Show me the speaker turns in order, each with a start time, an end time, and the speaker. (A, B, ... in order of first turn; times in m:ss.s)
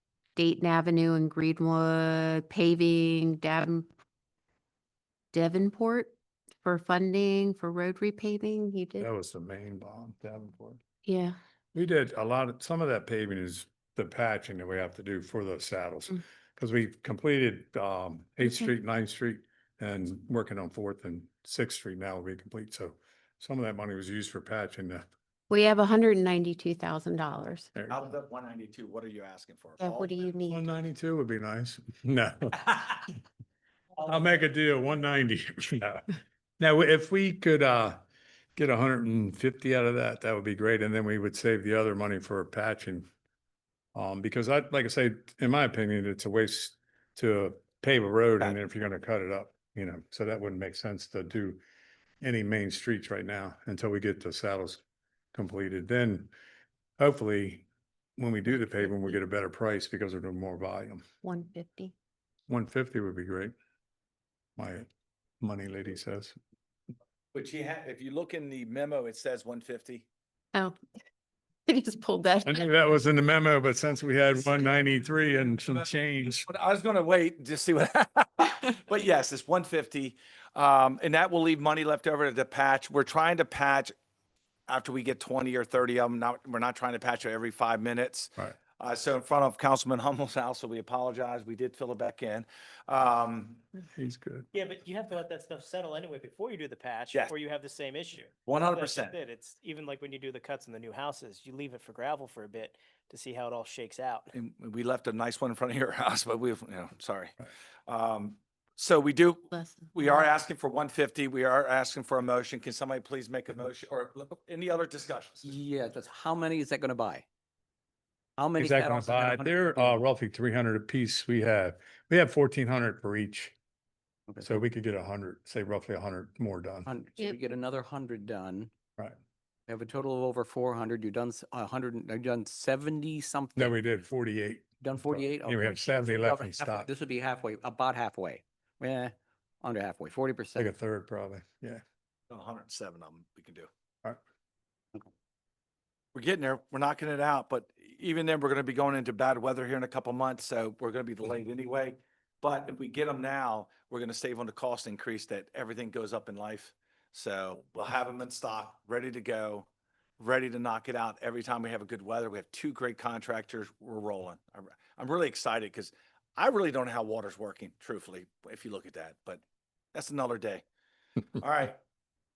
0:00.4-0:03.9 A
0:05.3-0:09.1 A
0:09.0-0:10.8 B
0:11.0-0:11.4 A
0:11.7-0:25.0 B
0:25.5-0:27.7 A
0:27.7-0:28.1 B
0:27.9-0:30.1 C
0:29.8-0:30.6 A
0:30.5-0:33.1 B
0:34.0-0:36.0 B
0:36.6-0:38.0 B
0:38.5-0:43.1 B
0:43.9-0:51.6 B
0:52.2-0:54.8 B
0:55.3-0:56.3 B
0:57.0-0:57.6 B
0:58.2-1:01.0 B
1:01.2-1:01.9 A
1:02.5-1:03.5 B
1:04.6-1:04.9 B
1:05.4-1:06.4 B
1:07.3-1:10.0 C
1:11.7-1:12.7 A
1:12.4-1:16.4 B
1:16.5-1:23.9 C
1:24.7-1:33.6 C
1:33.9-1:34.5 B
1:34.5-1:44.3 D
1:38.5-1:39.1 C
1:44.3-1:47.4 C
1:47.9-1:55.5 C
1:49.5-1:50.3 A
1:55.4-1:57.2 E
1:58.4-2:00.0 E
1:58.6-2:03.5 B
2:04.4-2:06.9 B
2:06.8-2:08.7 E
2:09.7-2:13.8 E
2:13.6-2:16.9 B
2:14.8-2:20.7 E
2:20.6-2:21.8 B
2:22.3-2:23.7 C
2:26.1-2:39.7 C
2:40.2-2:49.4 C
2:49.9-2:50.6 C
2:51.4-2:51.8 C